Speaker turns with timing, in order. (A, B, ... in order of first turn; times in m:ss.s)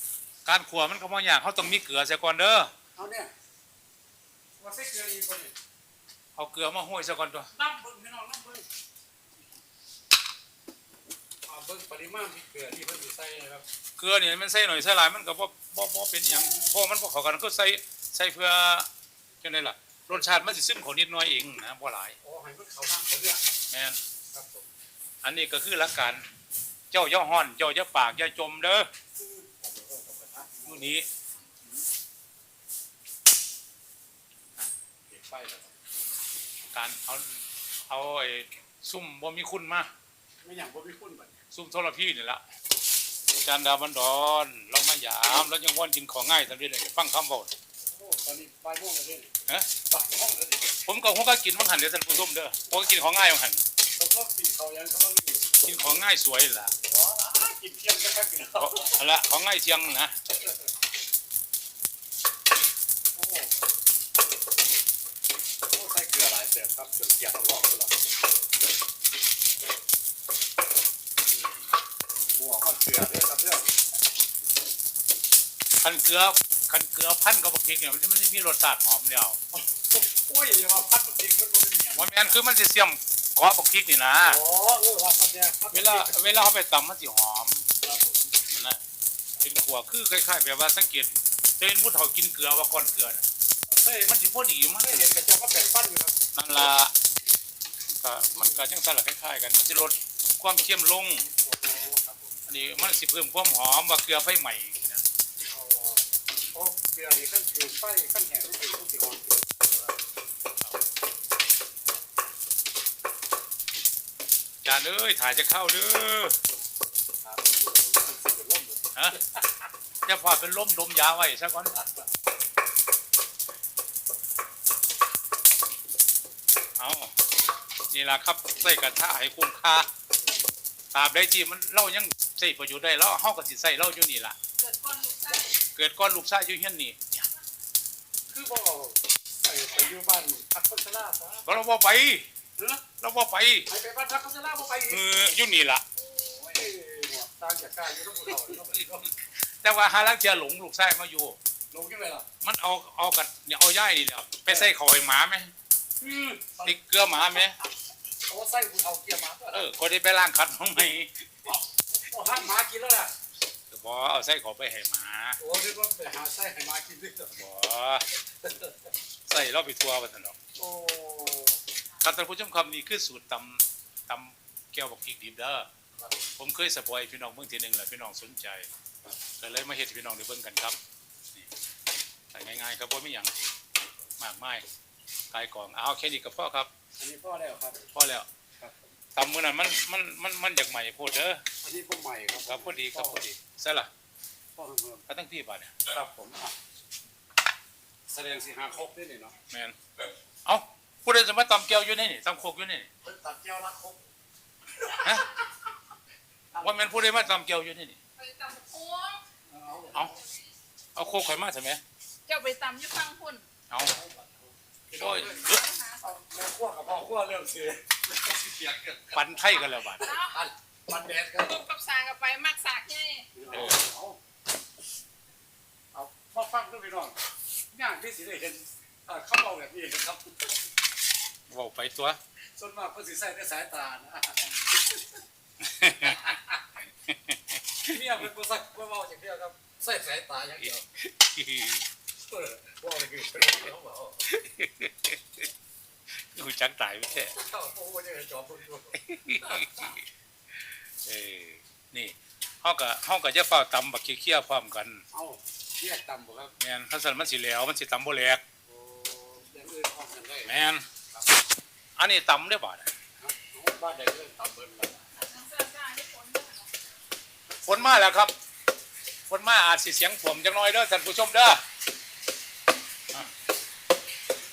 0:00.5-0:02.7 A
0:03.0-0:03.3 B
0:04.6-0:05.5 B
0:06.4-0:07.5 A
0:07.5-0:08.7 B
0:11.5-0:13.6 B
0:14.0-0:18.9 A
0:19.4-0:22.2 A
0:22.2-0:23.4 B
0:23.7-0:24.0 A
0:24.3-0:24.7 B
0:25.2-0:26.2 A
0:26.9-0:28.9 A
0:29.2-0:30.9 B
0:30.7-0:31.1 A
0:35.1-0:35.8 B
0:36.7-0:39.9 A
0:40.4-0:41.4 B
0:41.5-0:42.4 A
0:43.3-0:47.6 A
0:47.8-0:50.8 B
0:50.8-0:53.6 A
0:54.0-0:55.7 B
0:55.6-0:56.7 A
0:56.8-0:59.0 B
0:58.6-1:00.1 A
1:03.2-1:03.5 B
1:05.7-1:08.0 B
1:12.4-1:13.7 B
1:15.8-1:19.4 A
1:19.5-1:22.1 B
1:22.0-1:24.4 A
1:24.2-1:26.2 B
1:25.7-1:27.7 A
1:27.8-1:28.4 B
1:28.5-1:28.8 A
1:29.4-1:33.3 A
1:33.7-1:34.1 B
1:34.1-1:35.1 A
1:34.8-1:36.2 B
1:36.4-1:36.9 A
1:38.0-1:41.3 A
1:41.2-1:42.4 B
1:42.5-1:45.0 A
1:45.4-1:50.0 B
1:54.6-1:56.4 A
1:57.2-1:59.4 B
2:00.1-2:01.8 A
2:06.8-2:07.1 A
2:07.9-2:09.9 A
2:10.9-2:14.4 A
2:14.6-2:15.6 C
2:15.6-2:17.3 A
2:18.3-2:21.5 B
2:21.5-2:22.3 A
2:22.6-2:22.8 B
2:23.0-2:23.7 A
2:23.7-2:25.1 B
2:24.9-2:25.8 A
2:26.0-2:29.1 B
2:29.4-2:31.4 A
2:31.7-2:32.3 B
2:32.4-2:35.5 A
2:36.0-2:36.8 B
2:36.6-2:37.6 A
2:38.2-2:39.7 B
2:39.5-2:41.6 A
2:42.0-2:43.1 B
2:43.7-2:45.4 A
2:45.4-2:47.4 B
2:47.3-2:48.1 A
2:48.4-2:48.7 B
2:49.3-2:50.4 A
2:50.6-2:51.6 B
2:52.0-2:55.7 A
2:56.4-2:58.7 A
2:59.4-3:00.8 A
3:02.3-3:03.3 A
3:04.2-3:04.6 A
3:05.3-3:06.7 A
3:07.0-3:07.9 B
3:07.9-3:08.3 A
3:08.6-3:08.9 B
3:09.2-3:11.4 A
3:11.6-3:13.2 B
3:12.5-3:13.9 A
3:14.6-3:15.1 B
3:15.1-3:15.8 A
3:15.9-3:16.6 B
3:18.1-3:19.3 B
3:19.5-3:19.8 A
3:20.4-3:22.9 A
3:23.0-3:24.0 B
3:25.0-3:25.3 B
3:25.0-3:25.3 A
3:26.6-3:28.0 A
3:28.2-3:29.2 C
3:29.5-3:30.2 B
3:30.1-3:30.5 C
3:31.0-3:31.8 A
3:32.3-3:33.4 C
3:33.7-3:34.0 A
3:33.8-3:39.3 B
3:35.0-3:35.6 A
3:35.4-3:36.0 C
3:39.1-3:40.2 A
3:40.0-3:40.3 C
3:40.0-3:41.6 B
3:41.4-3:43.3 C
3:43.3-3:44.2 B
3:43.5-3:43.8 A
3:45.9-3:47.2 B
3:47.7-3:50.5 B
3:51.5-3:52.2 A
3:52.6-3:55.0 B
3:55.6-3:56.3 A
3:55.9-3:56.6 B
3:57.1-3:58.0 A
3:57.8-4:00.9 B
4:01.0-4:01.8 A
4:02.2-4:04.3 B
4:04.3-4:05.5 A
4:06.2-4:07.4 A
4:07.3-4:09.9 B
4:09.0-4:10.0 A
4:11.0-4:15.0 A
4:15.1-4:16.5 B
4:16.6-4:18.4 A
4:18.7-4:20.6 B
4:20.5-4:20.9 A
4:22.0-4:22.9 A
4:23.2-4:25.1 B
4:25.2-4:26.7 C
4:27.6-4:28.3 A
4:29.3-4:31.6 A